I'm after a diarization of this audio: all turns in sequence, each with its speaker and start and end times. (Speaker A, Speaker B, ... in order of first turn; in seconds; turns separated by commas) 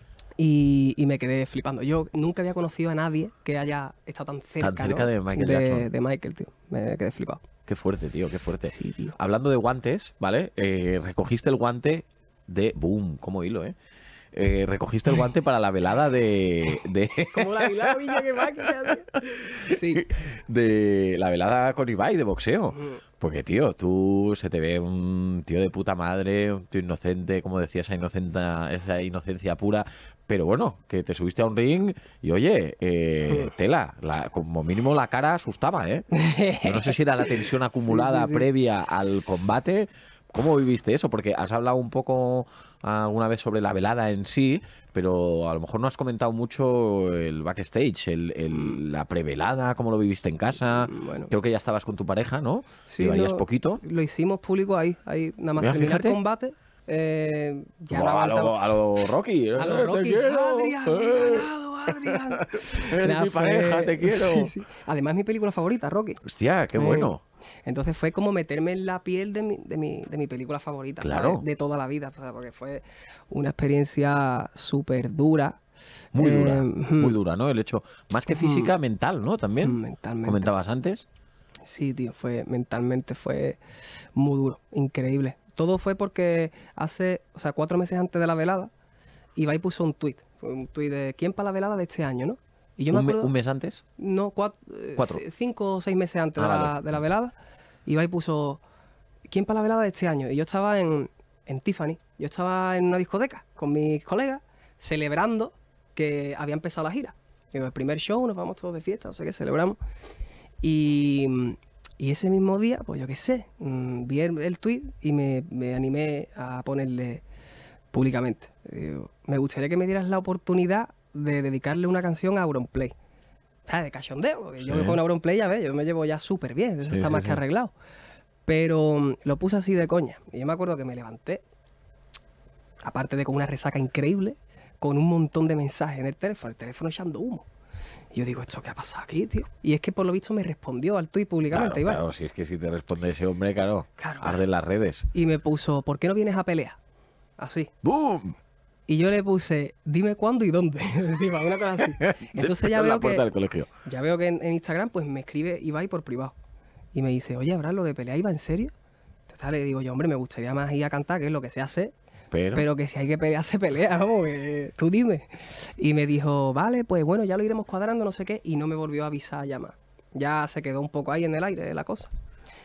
Speaker A: 0.4-7.4, Speaker B: 4.6-5.9, Speaker B: 7.7-13.7, Speaker A: 8.7-9.2, Speaker B: 14.3-36.0, Speaker A: 17.3-20.0, Speaker A: 22.7-23.0, Speaker A: 36.1-38.4, Speaker B: 36.6-53.8, Speaker A: 48.5-48.8, Speaker A: 50.7-51.3, Speaker A: 52.9-58.6, Speaker B: 55.6-56.2, Speaker B: 57.9-61.5, Speaker A: 59.6-66.2, Speaker B: 62.0-64.5, Speaker B: 66.2-67.2, Speaker A: 66.7-67.1, Speaker A: 67.6-75.6, Speaker B: 71.0-71.4, Speaker B: 76.1-81.0, Speaker A: 76.2-77.2, Speaker A: 78.3-78.7, Speaker A: 79.6-80.5, Speaker A: 81.6-83.6, Speaker A: 84.1-88.7, Speaker A: 89.4-93.3, Speaker B: 92.9-93.8, Speaker A: 94.0-97.3, Speaker B: 95.0-95.2, Speaker B: 96.4-96.9, Speaker A: 97.9-98.6, Speaker A: 99.3-109.8, Speaker A: 110.6-117.2, Speaker A: 117.9-122.9, Speaker A: 123.7-127.7, Speaker B: 124.6-125.0, Speaker B: 126.9-127.4, Speaker A: 128.5-131.4, Speaker A: 132.8-137.4, Speaker A: 138.1-142.0, Speaker B: 141.5-145.1, Speaker A: 144.0-144.4, Speaker A: 145.1-146.8, Speaker A: 147.4-147.7, Speaker B: 147.8-148.4, Speaker A: 148.9-153.2, Speaker B: 152.0-153.7, Speaker A: 153.8-156.3, Speaker A: 156.9-158.7, Speaker A: 159.3-161.9, Speaker B: 162.3-162.7, Speaker A: 162.5-172.1